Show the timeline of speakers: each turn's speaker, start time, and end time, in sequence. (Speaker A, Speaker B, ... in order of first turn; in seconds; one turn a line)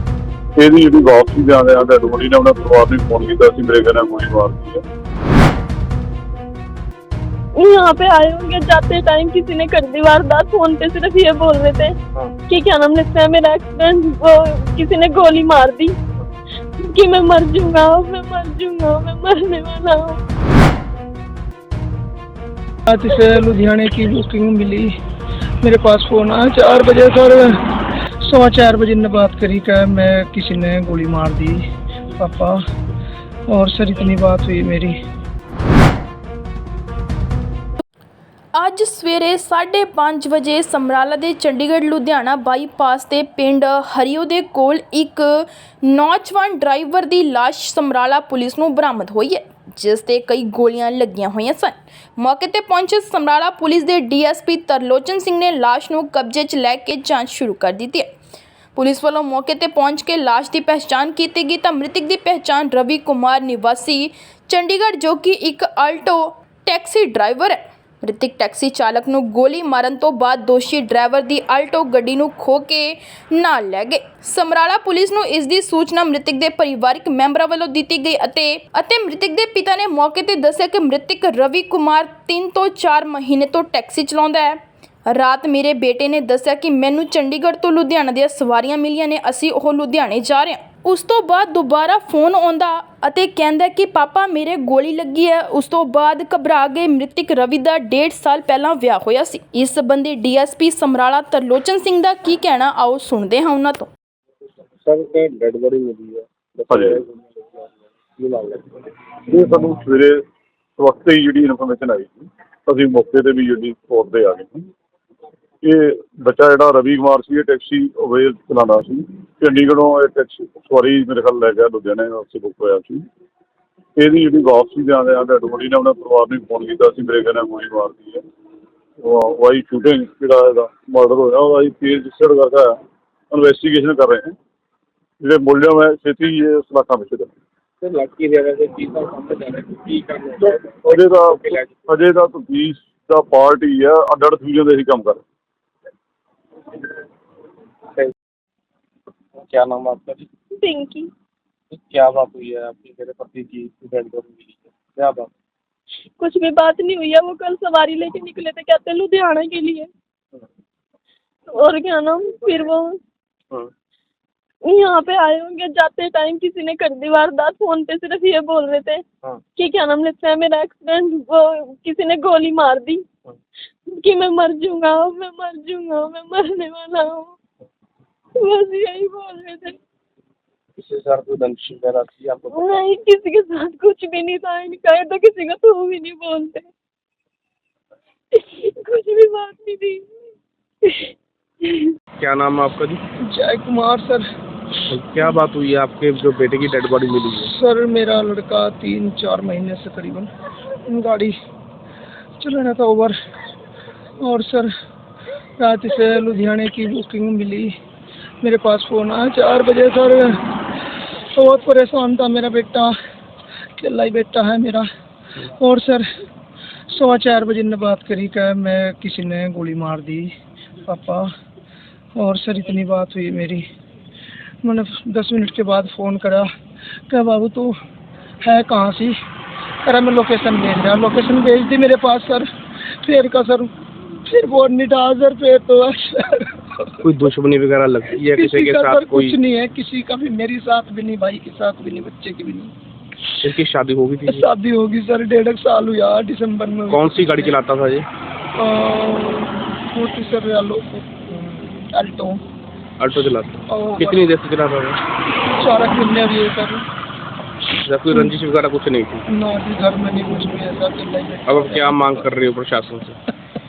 Speaker A: 0.6-4.8
Speaker B: 7.6-12.0
Speaker B: 12.5-16.0
Speaker B: 16.8-20.2
Speaker C: 22.9-24.9
Speaker C: 25.6-27.6
Speaker C: 28.2-31.6
Speaker C: 32.2-32.6
Speaker C: 33.5-35.0
Speaker D: 38.5-58.1
Speaker D: 58.8-103.9
Speaker E: 104.8-107.7
Speaker A: 106.7-107.0
Speaker E: 108.2-108.7
Speaker A: 109.3-110.2
Speaker A: 110.8-114.7
Speaker A: 115.6-123.0
Speaker A: 124.0-128.2
Speaker A: 129.0-132.8
Speaker A: 133.3-134.3
Speaker A: 135.2-137.3
Speaker E: 137.8-140.7
Speaker A: 140.4-145.2
Speaker E: 149.4-150.3
Speaker B: 150.6-151.1
Speaker E: 151.7-155.3
Speaker B: 156.2-159.9
Speaker B: 161.5-163.0
Speaker B: 164.7-169.0
Speaker B: 169.6-173.1
Speaker B: 173.9-177.4
Speaker B: 178.4-179.8
Speaker E: 180.8-182.8
Speaker B: 182.5-186.7
Speaker B: 188.3-190.1
Speaker B: 190.8-191.1
Speaker B: 191.6-191.9
Speaker E: 192.2-193.0
Speaker C: 193.2-194.3
Speaker E: 194.9-197.5
Speaker C: 197.4-200.3
Speaker C: 200.9-201.3
Speaker C: 202.4-203.2
Speaker C: 204.2-204.7
Speaker C: 205.6-207.7
Speaker C: 208.4-212.9
Speaker C: 213.8-214.9
Speaker C: 215.5-216.1
Speaker C: 216.9-220.3
Speaker C: 220.9-221.3
Speaker C: 222.2-223.6
Speaker C: 224.6-226.5
Speaker C: 227.1-227.8
Speaker C: 228.4-229.2
Speaker C: 229.8-233.7
Speaker C: 234.2-237.1
Speaker E: 237.0-239.4
Speaker C: 238.1-242.7
Speaker E: 243.4-244.5
Speaker C: 244.2-247.6
Speaker E: 246.9-248.1
Speaker C: 248.6-252.4
Speaker E: 253.0-255.0
Speaker C: 253.7-254.4
Speaker C: 255.5-256.9
Speaker E: 257.8-259.2
Speaker C: 258.1-258.4
Speaker C: 259.3-262.3
Speaker E: 261.5-263.2